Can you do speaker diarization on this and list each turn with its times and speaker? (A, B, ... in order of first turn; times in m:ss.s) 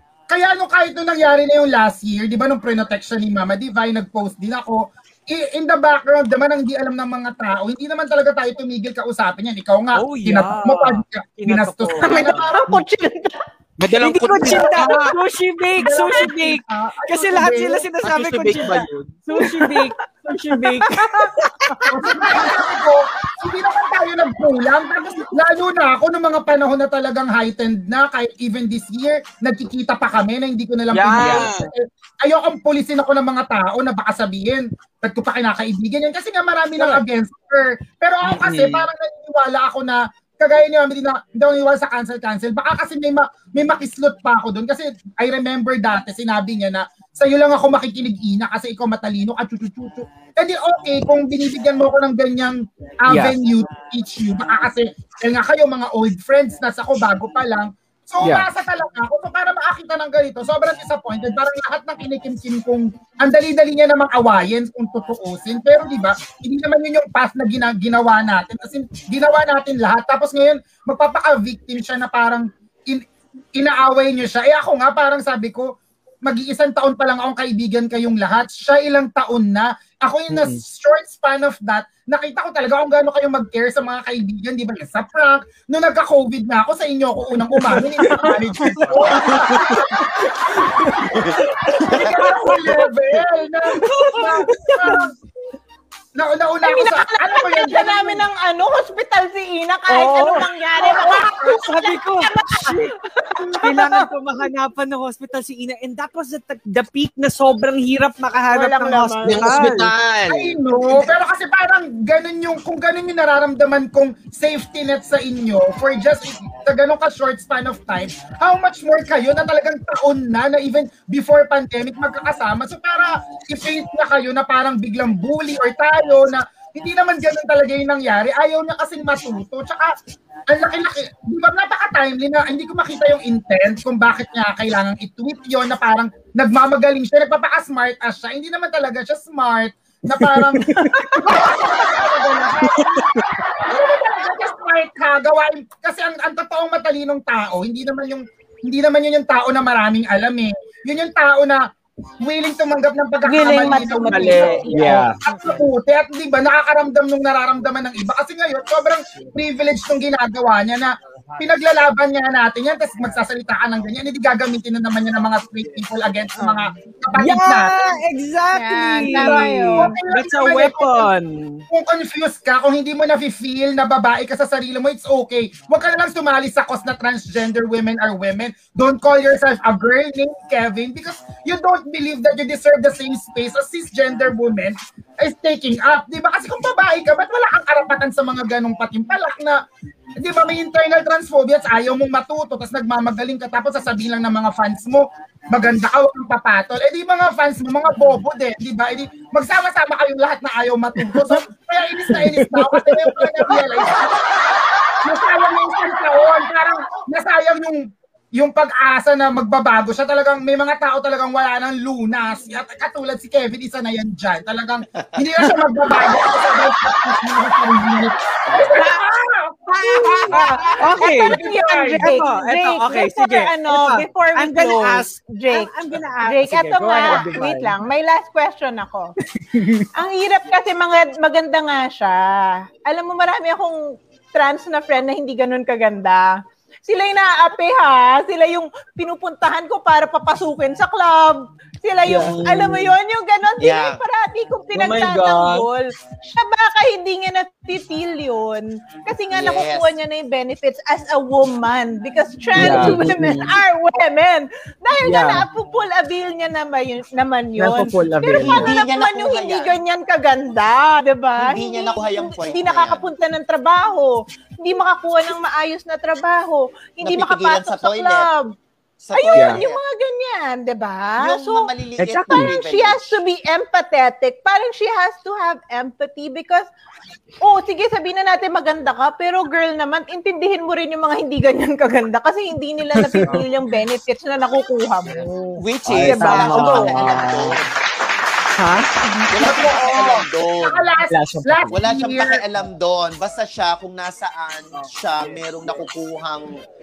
0:00.3-0:12.8 A
0:09.9-0:12.5 B
0:12.0-0:13.4 C
0:13.8-0:15.1 D
0:14.0-0:21.9 B
0:14.4-0:15.0 A
0:15.8-0:17.9 A
0:18.0-0:19.1 D
0:19.4-0:19.9 C
0:20.7-0:21.3 C
0:21.9-1:15.7 A
0:30.9-0:31.7 D
0:31.1-0:31.6 B
0:38.2-0:38.9 D
0:53.1-0:53.4 B
0:58.2-0:58.5 B
1:16.2-1:30.0 A
1:20.3-1:20.6 B
1:27.7-1:30.0 B
1:30.6-1:32.8 B
1:31.9-1:32.2 E
1:31.9-1:35.1 A
1:33.7-1:35.0 B
1:36.2-1:38.2 A
1:36.6-1:44.1 C
1:39.9-1:42.9 B
1:43.6-1:49.9 B
1:48.5-1:49.5 C
1:49.2-1:50.6 D
1:50.3-2:09.9 A
2:10.5-2:23.1 A
2:20.4-2:21.4 B
2:23.6-2:31.6 A
2:32.2-2:47.8 A
2:33.2-2:35.1 C
2:34.1-2:35.2 B
2:47.1-2:51.6 B
2:48.5-2:49.9 C
2:49.1-2:51.1 A
2:51.7-3:09.6 A
3:10.2-3:24.1 A
3:21.0-3:21.4 B
3:22.1-3:23.7 B
3:25.0-3:42.2 A
3:40.1-3:45.7 C
3:40.3-3:47.7 B
3:46.2-3:49.1 C
3:49.4-3:49.9 B
3:49.9-4:28.6 C
4:02.1-4:02.9 B
4:03.6-4:04.0 E
4:04.8-4:05.6 B
4:09.3-4:10.0 E
4:12.6-4:13.5 B
4:15.0-4:15.4 B
4:17.6-4:18.7 B
4:18.4-4:19.8 E
4:21.4-4:23.1 E
4:27.0-4:28.3 E
4:29.0-4:29.8 E
4:29.1-4:31.7 C
4:29.4-4:29.6 B
4:31.2-4:33.2 E
4:32.0-4:32.5 B
4:32.3-4:36.7 C
4:37.4-4:45.3 C
4:43.0-4:43.4 B
4:45.6-4:47.6 E
4:45.8-4:47.6 B
4:46.0-4:47.0 C
4:48.6-4:48.9 B
4:49.2-4:52.4 A
4:49.3-4:50.9 E
4:51.1-4:51.8 B
4:51.7-4:56.5 E